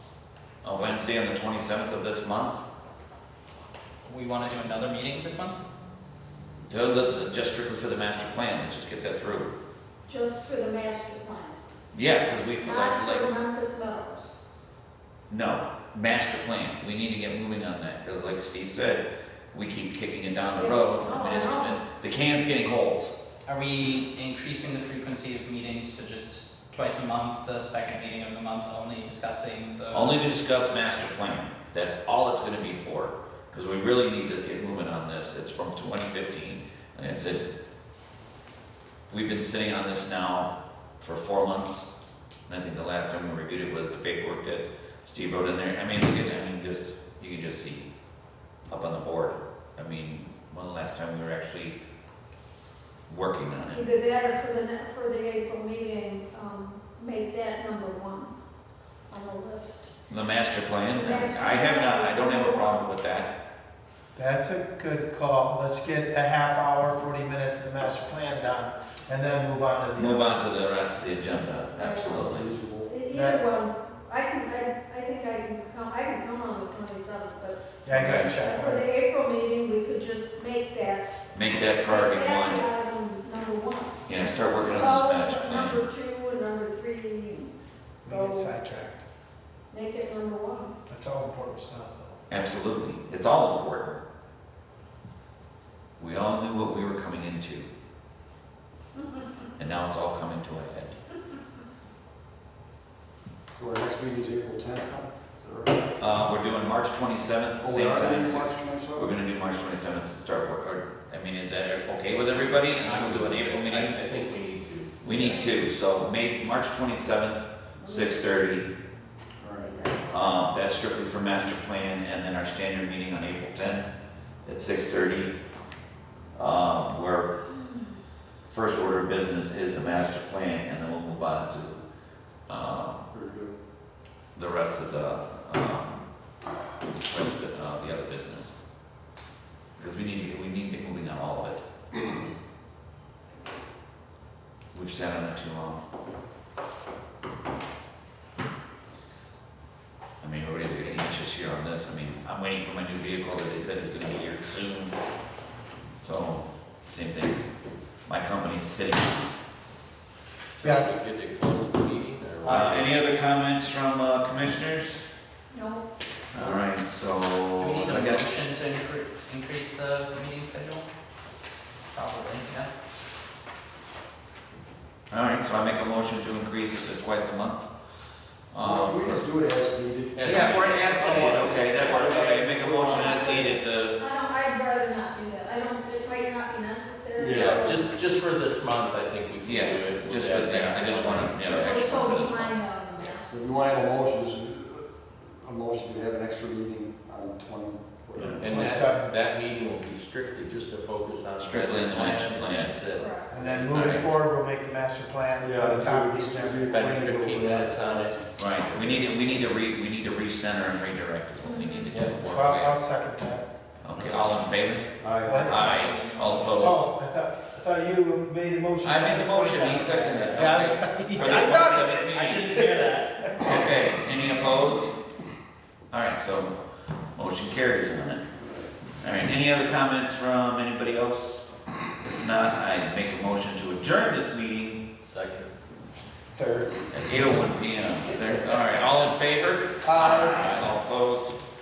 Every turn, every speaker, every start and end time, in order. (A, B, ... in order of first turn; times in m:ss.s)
0:00.6-0:02.6 A
0:04.1-0:05.6 B
0:06.7-0:09.5 A
0:10.1-0:11.6 C
0:11.9-0:13.4 A
0:12.6-0:14.4 C
0:15.3-0:23.1 A
0:20.6-0:21.8 C
0:23.5-0:30.2 B
0:29.9-0:37.5 A
0:39.1-0:41.9 A
0:42.5-0:47.9 A
0:48.7-0:51.8 A
0:53.1-0:53.9 A
0:53.7-0:58.3 C
0:59.1-1:00.0 C
1:00.1-1:03.3 A
1:00.9-1:02.9 C
1:04.2-1:10.4 D
1:09.9-1:12.5 A
1:11.8-1:12.2 C
1:12.0-1:12.9 E
1:12.9-1:17.8 C
1:13.1-1:13.4 D
1:17.8-1:18.9 D
1:17.9-1:18.3 A
1:18.3-1:21.1 C
1:21.3-1:22.6 A
1:21.9-1:27.5 C
1:24.1-1:25.8 A
1:28.0-1:28.6 C
1:28.0-1:29.0 D
1:29.7-1:30.7 C
1:30.9-1:32.2 D
1:32.3-1:34.0 A
1:36.0-1:37.7 A
1:39.6-1:40.9 A
1:43.6-1:46.0 E
1:46.0-1:54.0 A
1:47.6-1:49.2 E
1:52.7-1:55.2 F
1:55.0-1:58.7 A
1:55.1-1:55.6 C
1:57.8-1:58.3 C
1:59.4-2:00.4 C
2:00.1-2:03.9 A
2:04.4-2:05.3 A
2:06.4-2:07.3 A
2:07.5-2:08.0 C
2:08.5-2:11.8 A
2:12.5-2:13.1 A
2:13.1-2:13.5 E
2:14.4-2:16.1 A
2:17.0-2:18.5 A
2:19.8-2:21.6 A
2:24.7-2:25.8 A
2:30.2-2:34.9 A
2:36.0-2:37.4 A
2:38.1-2:39.3 A
2:40.6-2:43.0 F
2:42.4-2:45.0 A
2:45.5-2:45.9 C
2:46.3-2:48.1 A
2:47.6-2:50.8 B
2:47.9-2:48.3 F
2:51.9-2:52.7 B
2:55.1-2:57.7 A
2:58.5-2:59.2 A
2:58.6-3:03.5 E
3:00.2-3:02.7 F
3:00.2-3:04.0 A
3:02.9-3:07.9 C
3:07.2-3:07.8 E
3:07.3-3:11.4 F
3:09.4-3:12.5 A
3:10.9-3:13.3 C
3:13.2-3:14.9 E
3:15.4-3:18.7 E
3:18.2-3:18.4 A
3:18.4-3:24.1 F
3:18.4-3:19.2 D
3:21.4-3:22.7 A
3:23.0-3:23.4 C
3:23.3-3:26.9 D
3:23.7-3:24.0 A
3:25.4-3:28.2 E
3:26.7-3:29.0 F
3:28.4-3:32.8 A
3:31.4-3:32.1 C
3:31.9-3:32.2 F
3:32.2-3:33.5 D
3:33.8-3:34.9 A
3:33.9-3:34.4 F
3:35.0-3:36.7 F
3:35.2-3:35.7 D
3:35.4-3:36.8 B
3:35.5-3:36.8 A
3:36.6-3:42.9 D
3:38.8-3:42.7 A
3:42.1-3:43.4 B
3:43.4-3:44.9 A
3:45.9-3:46.5 A
3:47.1-3:48.2 A
3:49.0-3:51.5 A
3:52.0-3:54.8 A
3:55.0-3:55.5 F
3:56.3-3:56.8 D
3:56.9-4:01.4 A
3:59.8-4:00.5 D
4:00.3-4:00.6 F